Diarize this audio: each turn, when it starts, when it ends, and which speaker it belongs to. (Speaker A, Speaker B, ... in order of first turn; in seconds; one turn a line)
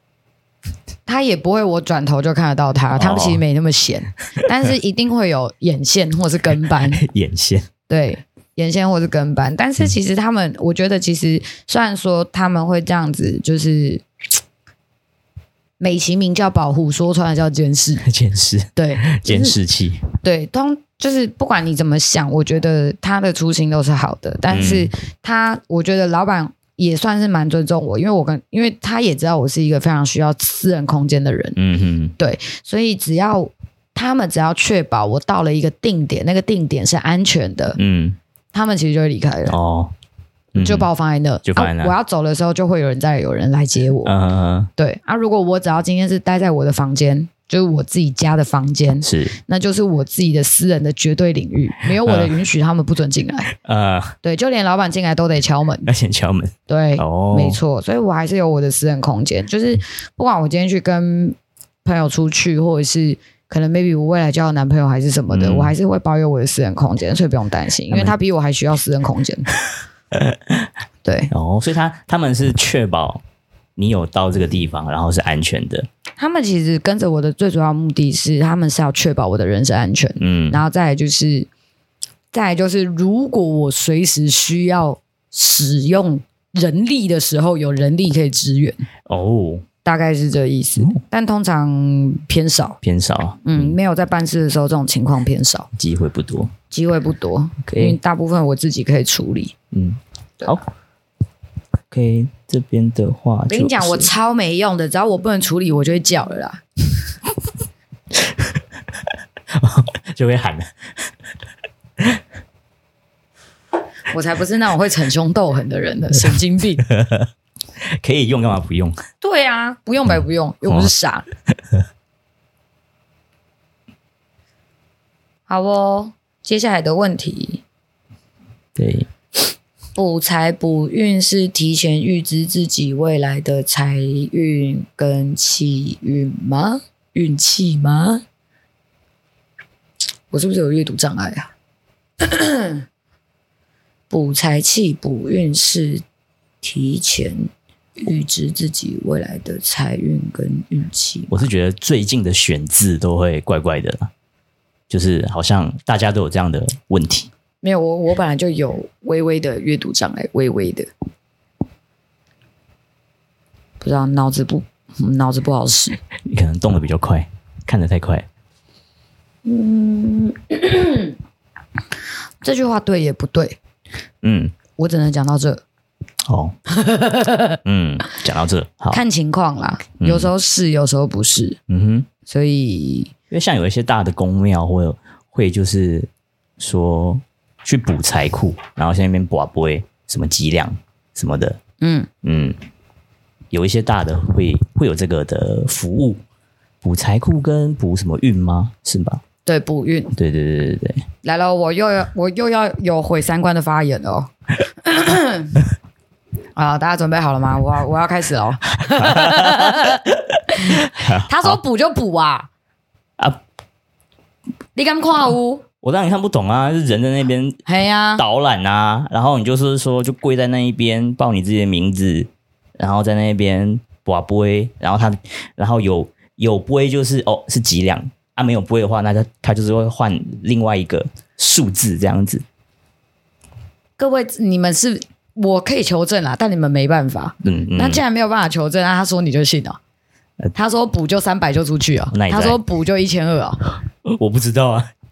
Speaker A: 1.1-7.0
Speaker B: 3.0-3.4
Speaker B: 6.9-7.7
Speaker A: 7.9-14.0
Speaker A: 15.8-18.1
Speaker B: 18.0-20.1
Speaker A: 18.8-19.6
Speaker A: 20.2-31.6
Speaker B: 24.5-24.9
Speaker B: 31.6-32.1
Speaker A: 32.2-37.8
Speaker B: 37.8-38.2
Speaker A: 38.5-39.6
Speaker B: 39.5-39.9
Speaker B: 40.5-40.9
Speaker A: 40.5-44.1
Speaker B: 41.5-41.9
Speaker B: 44.0-44.7
Speaker A: 44.8-53.5
Speaker B: 49.0-49.4
Speaker B: 52.0-52.3
Speaker B: 53.5-54.2
Speaker A: 54.2-55.9
Speaker B: 55.9-57.6
Speaker A: 56.7-69.5
Speaker B: 65.3-65.7
Speaker B: 67.9-68.2
Speaker B: 70.1-70.7
Speaker A: 71.0-71.3
Speaker B: 71.3-73.2
Speaker B: 73.8-75.9
Speaker A: 76.2-81.5
Speaker B: 80.2-80.6
Speaker A: 82.3-88.8
Speaker B: 89.1-89.7
Speaker A: 89.8-92.8
Speaker B: 92.8-93.8
Speaker A: 93.5-95.7
Speaker B: 95.8-96.5
Speaker A: 96.7-99.5
Speaker B: 97.7-98.0
Speaker B: 99.7-100.6
Speaker B: 101.9-104.1
Speaker A: 103.5-106.6
Speaker B: 108.2-108.6
Speaker B: 109.5-110.7
Speaker A: 114.1-116.8
Speaker B: 116.8-117.3
Speaker B: 118.0-119.0
Speaker A: 119.2-121.3
Speaker A: 125.5-127.6
Speaker B: 128.8-129.1
Speaker A: 130.0-138.2
Speaker A: 140.3-141.5
Speaker A: 142.2-142.8
Speaker A: 144.1-146.0
Speaker A: 146.6-147.5
Speaker A: 148.0-151.4
Speaker B: 151.3-154.1
Speaker B: 154.9-157.3
Speaker A: 157.6-160.9
Speaker A: 163.8-166.0
Speaker B: 166.3-168.3
Speaker A: 169.4-171.2
Speaker A: 172.4-173.6
Speaker B: 174.2-174.6
Speaker A: 174.8-175.6
Speaker B: 176.3-176.6
Speaker A: 176.8-177.6
Speaker B: 177.7-179.0
Speaker A: 178.9-181.6
Speaker B: 180.0-180.3
Speaker B: 181.7-182.1
Speaker A: 182.3-183.1
Speaker B: 183.3-191.6
Speaker A: 191.8-192.1
Speaker B: 192.2-192.6
Speaker B: 193.5-196.2
Speaker B: 196.8-199.2
Speaker A: 199.5-200.1
Speaker B: 200.2-201.1
Speaker A: 201.2-204.3
Speaker A: 204.8-205.6
Speaker A: 206.6-212.5
Speaker B: 208.8-211.6
Speaker A: 214.8-215.6
Speaker B: 215.8-217.6
Speaker A: 217.7-218.2
Speaker B: 218.2-232.4
Speaker A: 234.0-239.8
Speaker B: 237.4-238.0
Speaker A: 240.6-243.7
Speaker B: 242.1-242.6
Speaker B: 244.1-244.9